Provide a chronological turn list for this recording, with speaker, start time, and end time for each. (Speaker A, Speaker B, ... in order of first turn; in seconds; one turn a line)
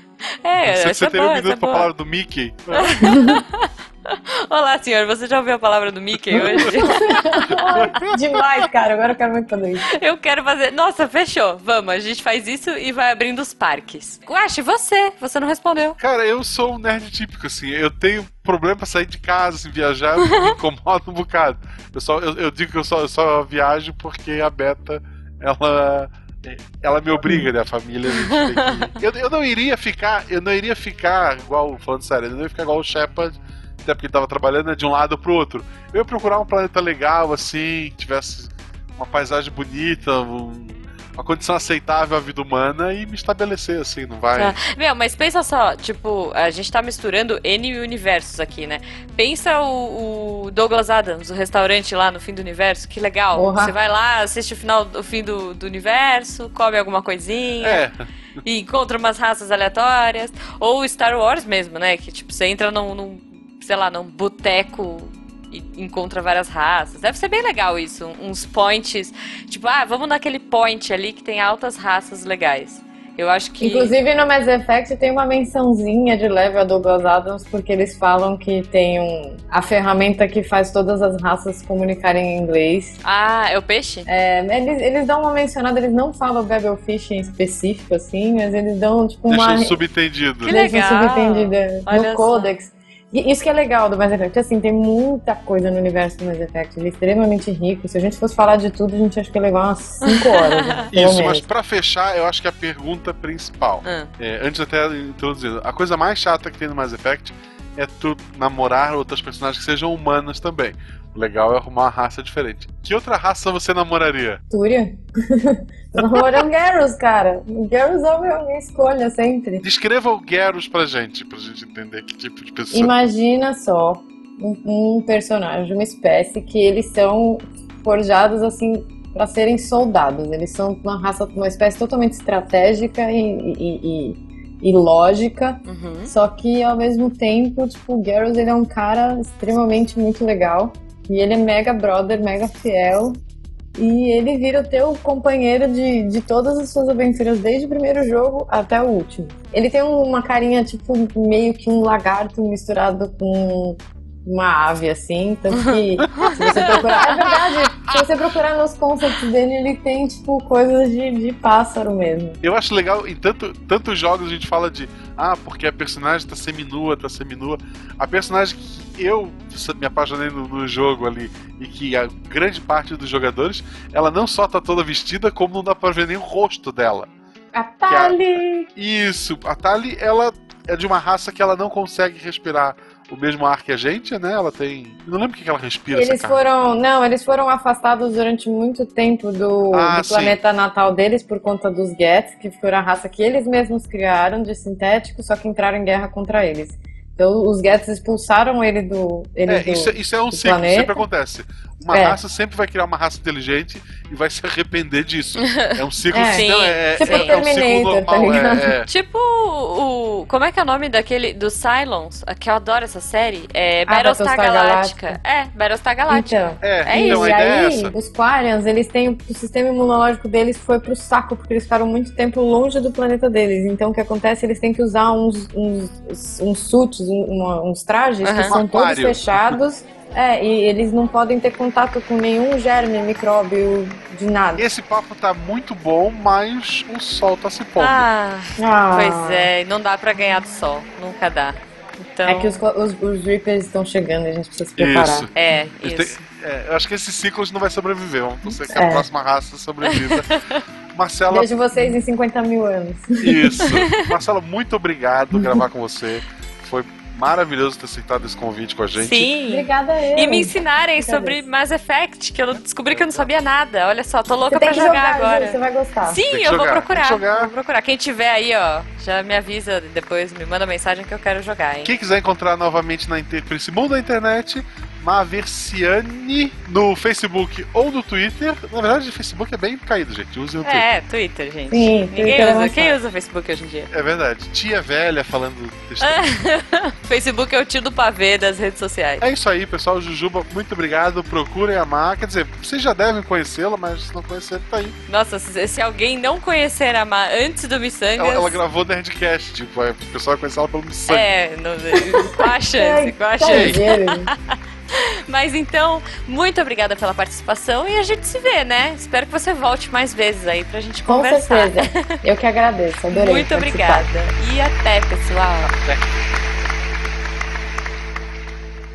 Speaker A: 0.4-1.9
Speaker B: 0.7-3.0
Speaker A: 2.7-7.8
Speaker C: 3.0-3.4
Speaker B: 6.3-6.9
Speaker C: 6.3-10.0
Speaker B: 7.5-8.1
Speaker A: 9.9-16.0
Speaker B: 16.0-44.6
Speaker A: 28.1-28.9
Speaker A: 44.4-57.9
Speaker C: 53.3-53.8
Speaker B: 57.6-58.1
Speaker A: 58.4-73.9
Speaker C: 73.6-83.0
Speaker A: 83.0-84.1
Speaker C: 84.1-89.8
Speaker B: 89.3-90.5
Speaker A: 90.4-92.5
Speaker C: 90.4-101.5
Speaker A: 100.0-100.9
Speaker B: 100.9-114.4
Speaker A: 103.8-104.1
Speaker C: 114.5-119.6
Speaker B: 116.0-116.2
Speaker B: 119.6-122.9
Speaker C: 122.7-143.2
Speaker A: 135.7-136.1
Speaker C: 143.8-162.4
Speaker A: 155.6-156.7
Speaker B: 156.2-157.3
Speaker B: 162.4-177.1
Speaker C: 177.5-178.7
Speaker B: 177.9-178.2
Speaker B: 178.8-186.4
Speaker C: 185.9-201.0
Speaker B: 189.7-190.4
Speaker B: 199.5-208.9
Speaker C: 201.9-202.2
Speaker A: 205.4-207.4
Speaker C: 206.1-208.8
Speaker A: 208.9-217.3
Speaker C: 213.9-215.2
Speaker C: 216.1-234.7
Speaker B: 216.6-217.9
Speaker A: 228.2-228.6
Speaker B: 228.5-229.6
Speaker B: 234.6-238.1
Speaker A: 237.8-242.6
Speaker C: 238.6-239.5
Speaker C: 242.3-245.3
Speaker B: 244.8-245.3
Speaker A: 245.3-246.2
Speaker B: 245.8-250.3
Speaker C: 248.7-249.1
Speaker A: 249.9-250.6
Speaker B: 250.9-251.5
Speaker C: 251.3-253.7
Speaker B: 253.2-259.3
Speaker A: 253.6-254.1
Speaker C: 255.3-255.6
Speaker A: 259.0-271.9
Speaker C: 259.5-261.4
Speaker B: 262.9-263.3
Speaker C: 264.5-266.2
Speaker B: 266.3-267.5
Speaker B: 271.8-280.9
Speaker A: 280.6-283.9
Speaker C: 281.7-283.0
Speaker B: 283.9-286.3
Speaker A: 286.0-289.2
Speaker B: 289.2-295.0
Speaker A: 295.1-298.6
Speaker B: 298.2-301.3
Speaker A: 301.1-312.2
Speaker C: 302.4-304.3
Speaker B: 303.5-303.8
Speaker C: 311.1-314.1
Speaker A: 313.1-315.7
Speaker B: 315.6-316.1